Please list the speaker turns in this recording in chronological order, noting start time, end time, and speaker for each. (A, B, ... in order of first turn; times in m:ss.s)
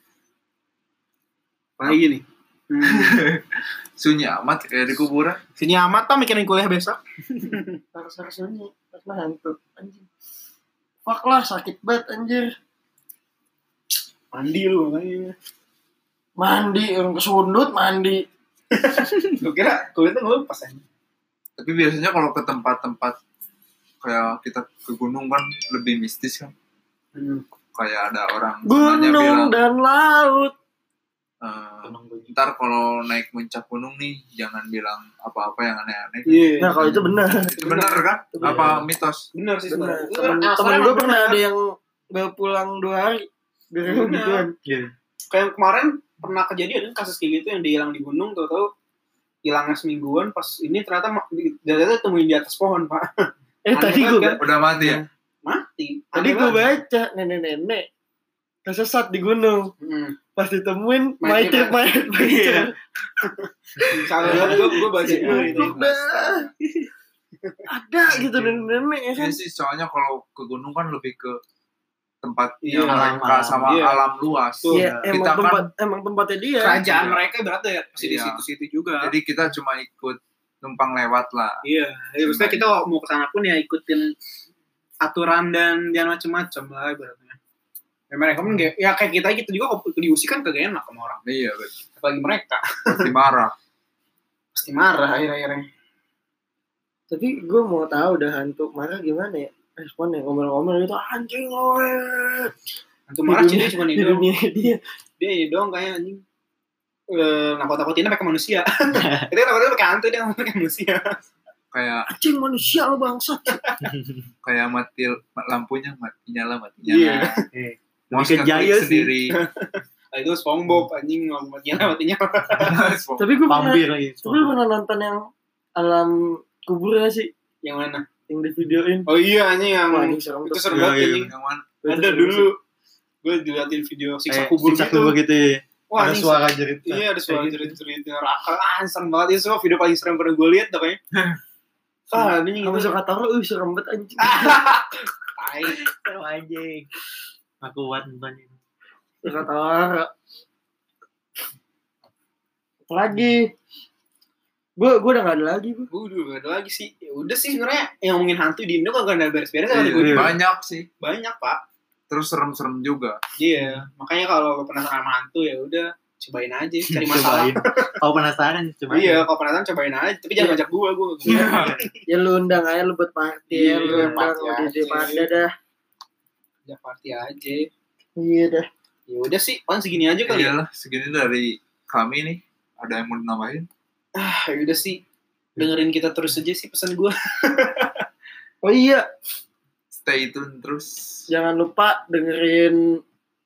0:01.8-0:03.2 A
0:02.8-0:05.4 B
0:05.6-0:07.8 A
0:08.0-0:10.1 C
0:11.1-0:12.5 C
0:14.3-0:15.3 A
0:16.4-0:18.2 C
0:18.7-0:20.8 A
0:21.6-0:23.2 B
0:24.0-0:26.5 B
0:27.2-0:27.4 A
0:27.8-0:29.6 B
0:28.7-0:30.5 C
0:31.4-0:39.3 B
0:31.8-0:32.3 D
0:36.3-0:36.7 A
0:36.6-0:37.5 C
0:37.5-0:38.0 A
0:38.3-0:38.8 C
0:38.4-0:38.9 D
0:39.3-0:41.4 A
0:39.7-0:44.5 C
0:43.9-0:44.4 A
0:44.6-0:44.9 D
0:45.3-0:48.7 A
0:49.4-0:54.4 A
0:53.7-0:55.0 C
0:54.4-0:55.0 B
0:55.4-0:56.6 A
0:56.1-0:57.9 C
0:58.7-0:59.7 C
0:59.8-1:00.2 A
1:00.4-1:02.7 C
1:01.2-1:01.8 A
1:02.2-1:02.7 D
1:03.2-1:05.8 A
1:03.8-1:06.5 C
1:04.2-1:05.6 D
1:05.5-1:06.5 B
1:07.7-1:09.4 C
1:08.1-1:08.9 D
1:09.2-1:11.4 B
1:12.2-1:15.7 B
1:12.6-1:14.0 A
1:12.9-1:13.7 D
1:14.6-1:14.9 A
1:14.7-1:15.1 D
1:14.7-1:17.1 C
1:16.6-1:19.1 A
1:18.0-1:18.4 B
1:19.0-1:21.6 B
1:21.6-1:24.1 A
1:22.2-1:22.7 B
1:25.0-1:27.4 A
1:28.1-1:31.2 A
1:31.2-1:31.8 B
1:32.0-1:33.1 A
1:32.9-1:33.5 B
1:34.6-1:35.7 A
1:37.1-1:42.5 C
1:43.1-1:44.3 A
1:43.3-1:44.8 C
1:45.2-1:46.2 A
1:47.1-1:51.2 A
1:48.9-1:49.3 D
1:51.7-1:52.1 B
1:52.1-1:53.6 C
1:53.9-1:54.3 D
1:54.4-1:57.4 B
1:56.9-1:57.5 A
1:57.5-1:59.1 D
1:58.1-1:59.4 B
1:59.3-2:02.9 A
2:02.6-2:03.4 B
2:03.2-2:05.2 C
2:03.5-2:04.6 D
2:05.8-2:07.3 C
2:07.6-2:08.1 A
2:08.3-2:09.1 C
2:09.1-2:11.3 A
2:09.9-2:10.8 C
2:10.7-2:11.3 D
2:11.3-2:11.7 B
2:11.8-2:12.5 C
2:11.9-2:12.6 A
2:13.2-2:15.2 A
2:14.3-2:17.8 D
2:15.9-2:21.0 A
2:22.1-2:23.0 A
2:22.1-2:24.6 C
2:24.2-2:25.8 A
2:25.8-2:26.9 D
2:27.6-2:28.6 D
2:29.2-2:30.1 C
2:32.9-2:33.5 C
2:34.8-2:35.9 C
2:35.9-2:40.3 A
2:39.7-2:40.9 B
2:40.0-2:40.3 D
2:41.0-2:41.6 A
2:42.1-2:43.2 B
2:43.4-2:48.0 A
2:43.6-2:43.9 D
2:46.9-2:49.3 D
2:48.9-2:52.0 A
2:51.3-2:51.8 B
2:51.3-2:55.5 C
2:53.5-2:55.3 A
2:56.7-2:57.7 A
2:58.2-2:58.7 C
2:59.1-3:00.6 A
3:00.3-3:03.7 B
3:04.2-3:05.0 A
3:05.6-3:08.0 A
3:08.6-3:09.1 C
3:09.9-3:11.0 B
3:11.3-3:12.8 C